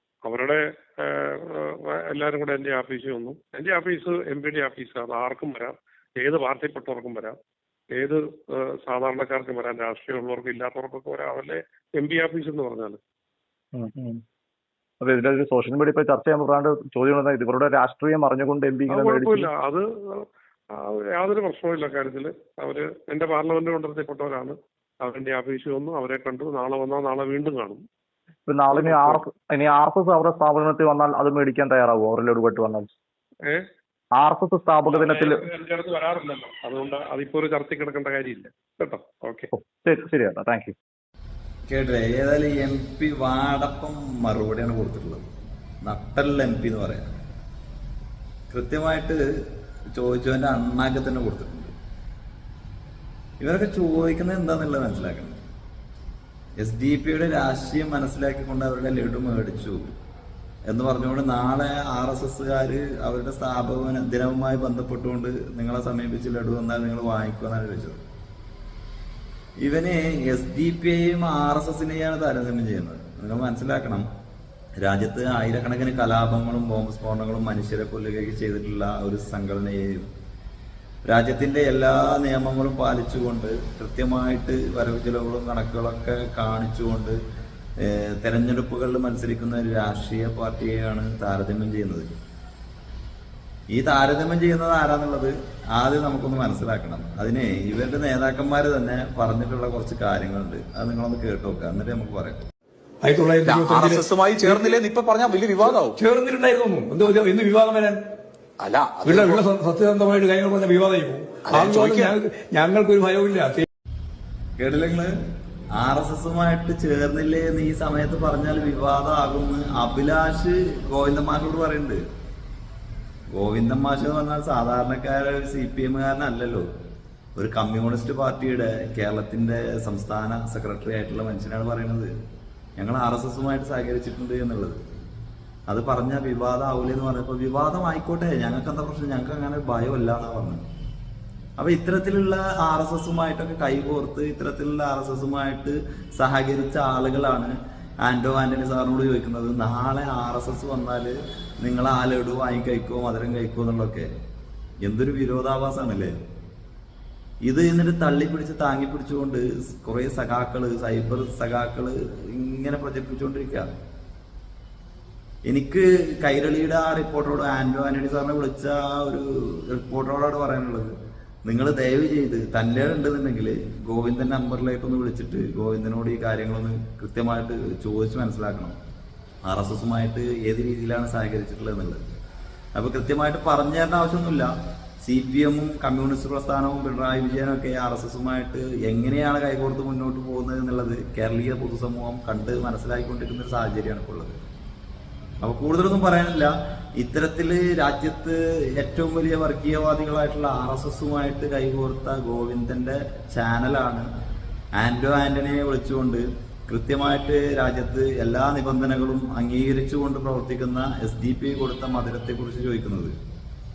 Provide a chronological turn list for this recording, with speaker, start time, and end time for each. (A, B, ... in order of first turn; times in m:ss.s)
0:00.2-0:07.4 A
0:08.0-0:13.0 A
0:13.7-0:14.2 B
0:15.0-0:19.5 B
0:18.9-0:27.8 A
0:28.5-0:32.9 B
0:28.7-0:29.2 A
0:34.2-0:35.4 B
0:34.9-0:39.5 A
0:39.5-0:40.8 B
0:41.7-0:45.3 C
0:45.8-0:47.2 C
0:48.5-0:49.2 C
0:49.9-0:51.7 C
0:53.4-0:55.4 C
0:56.6-0:59.9 C
1:00.7-1:08.0 C
1:09.6-1:14.1 C
1:14.8-1:20.1 C
1:21.1-1:27.2 C
1:27.8-1:32.1 C
1:33.7-1:42.4 C
1:43.0-1:44.8 D
1:43.4-1:46.0 E
1:45.6-1:48.0 D
1:48.6-1:49.4 E
1:49.0-1:53.7 D
1:51.4-1:52.2 E
1:54.6-1:55.1 C
1:55.8-2:02.0 C
2:03.3-2:06.7 C
2:07.4-2:12.1 C
2:12.8-2:14.8 C
2:15.7-2:20.6 C
2:21.6-2:34.1 C
2:34.8-2:36.1 C
2:37.4-2:43.7 C
2:45.5-2:58.8 C
2:59.4-3:02.0 C
3:02.8-3:04.5 C
3:05.0-3:14.4 C
3:15.4-3:24.0 C
3:24.8-3:33.1 C